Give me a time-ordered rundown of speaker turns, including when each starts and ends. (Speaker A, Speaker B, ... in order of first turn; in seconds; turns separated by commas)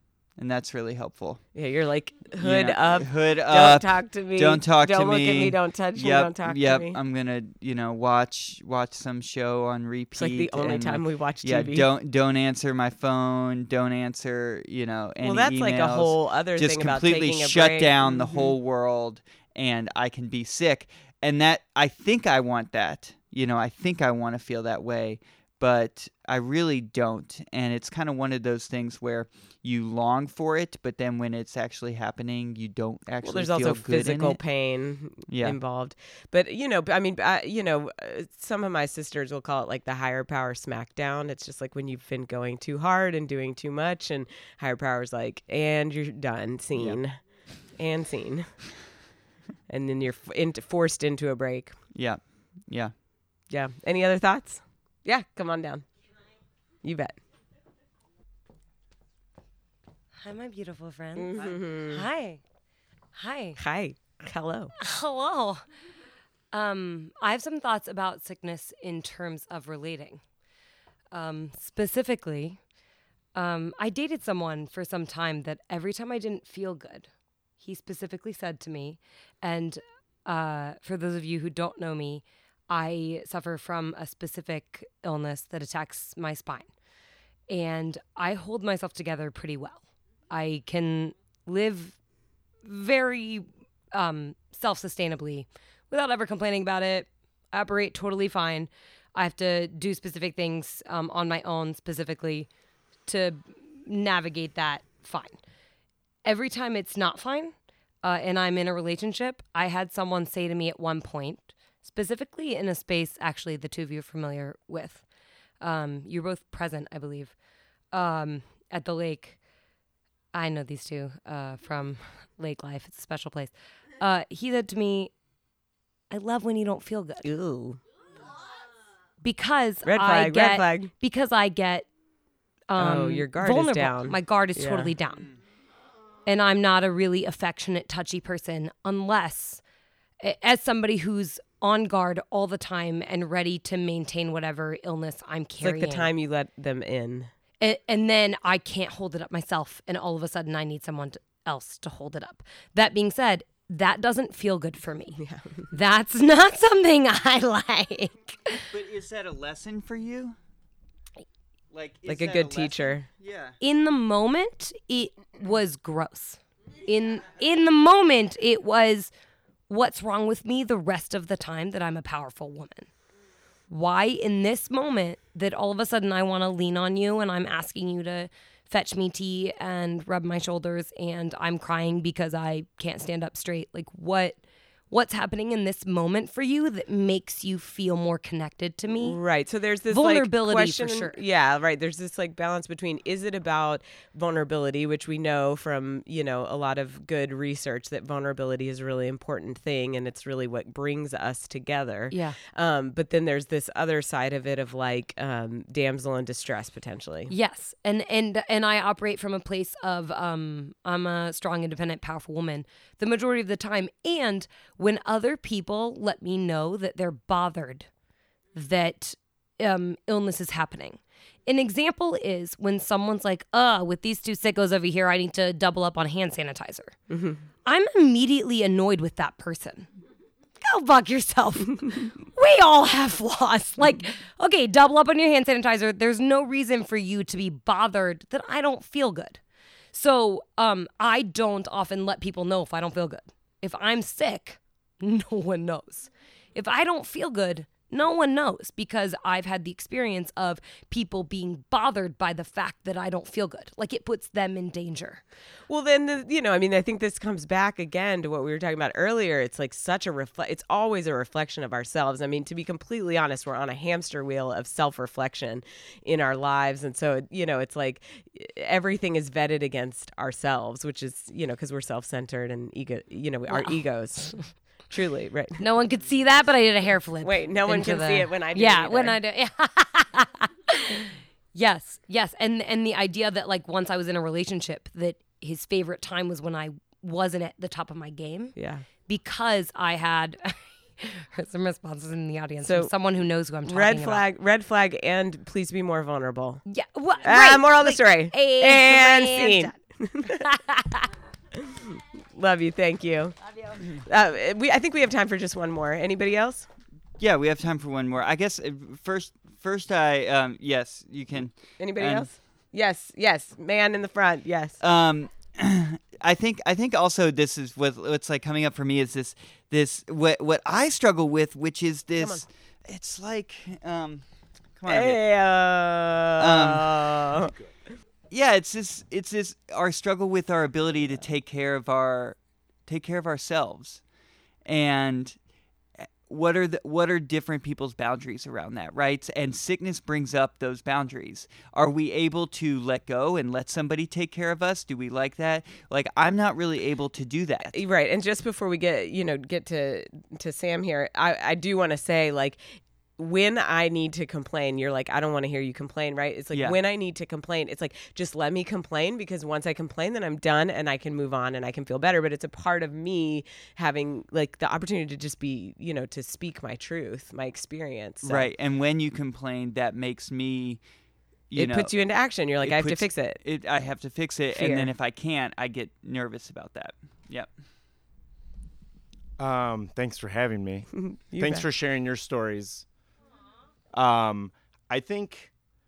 Speaker A: 0.4-1.4, Speaker B: 1.6-7.0, Speaker A: 2.4-34.4, Speaker B: 10.2-11.9, Speaker B: 15.2-18.5, Speaker B: 33.2-48.7, Speaker A: 35.3-35.6, Speaker B: 49.7-51.8, Speaker A: 51.9-52.9, Speaker B: 53.5-55.9, Speaker B: 56.8-57.2, Speaker C: 60.2-62.4, Speaker B: 61.2-62.1, Speaker C: 63.1-63.6, Speaker B: 63.6-64.7, Speaker C: 64.8-65.7, Speaker C: 66.5-70.2, Speaker C: 71.1-72.6, Speaker C: 73.3-86.7, Speaker C: 87.5-92.0, Speaker C: 92.6-102.5, Speaker C: 103.1-105.4, Speaker C: 106.2-115.0, Speaker C: 115.6-117.4, Speaker C: 117.9-119.4, Speaker C: 120.3-125.1, Speaker C: 126.1-127.3, Speaker B: 127.2-127.8, Speaker C: 129.2-131.9, Speaker B: 129.8-130.9, Speaker C: 132.7-135.3, Speaker B: 132.8-134.9, Speaker C: 136.3-139.6, Speaker C: 140.2-146.1, Speaker B: 145.6-147.3, Speaker C: 147.6-158.7, Speaker B: 155.2-155.7, Speaker A: 158.7-160.4, Speaker A: 161.7-163.6, Speaker B: 162.1-163.1, Speaker C: 163.6-169.1, Speaker C: 169.7-172.9, Speaker C: 173.7-189.2, Speaker B: 189.0-207.3, Speaker C: 189.9-191.2, Speaker C: 202.1-202.4, Speaker C: 207.3-217.9, Speaker C: 218.5-227.0, Speaker B: 227.1-227.4, Speaker C: 227.7-229.9, Speaker C: 230.6-239.4, Speaker C: 239.9-255.2, Speaker B: 255.7-275.6, Speaker C: 273.5-274.5, Speaker C: 275.6-294.2, Speaker B: 277.2-279.2, Speaker B: 288.6-288.9, Speaker B: 292.6-292.9, Speaker B: 293.7-296.6, Speaker C: 296.7-299.8, Speaker B: 297.2-300.5, Speaker C: 300.4-301.1, Speaker B: 301.6-306.7, Speaker A: 307.2-312.3, Speaker B: 311.8-314.8, Speaker A: 314.8-324.2, Speaker B: 322.2-322.4, Speaker A: 324.8-325.2, Speaker B: 324.9-327.5, Speaker A: 326.4-327.2, Speaker D: 327.4-327.7, Speaker A: 328.3-334.0, Speaker A: 334.6-335.4, Speaker A: 336.0-347.8, Speaker B: 347.7-368.5, Speaker A: 368.2-370.8, Speaker A: 371.5-371.9, Speaker B: 371.5-373.4, Speaker A: 372.6-377.5, Speaker B: 374.6-374.9, Speaker D: 379.4-382.9, Speaker B: 380.9-381.6, Speaker D: 383.9-385.5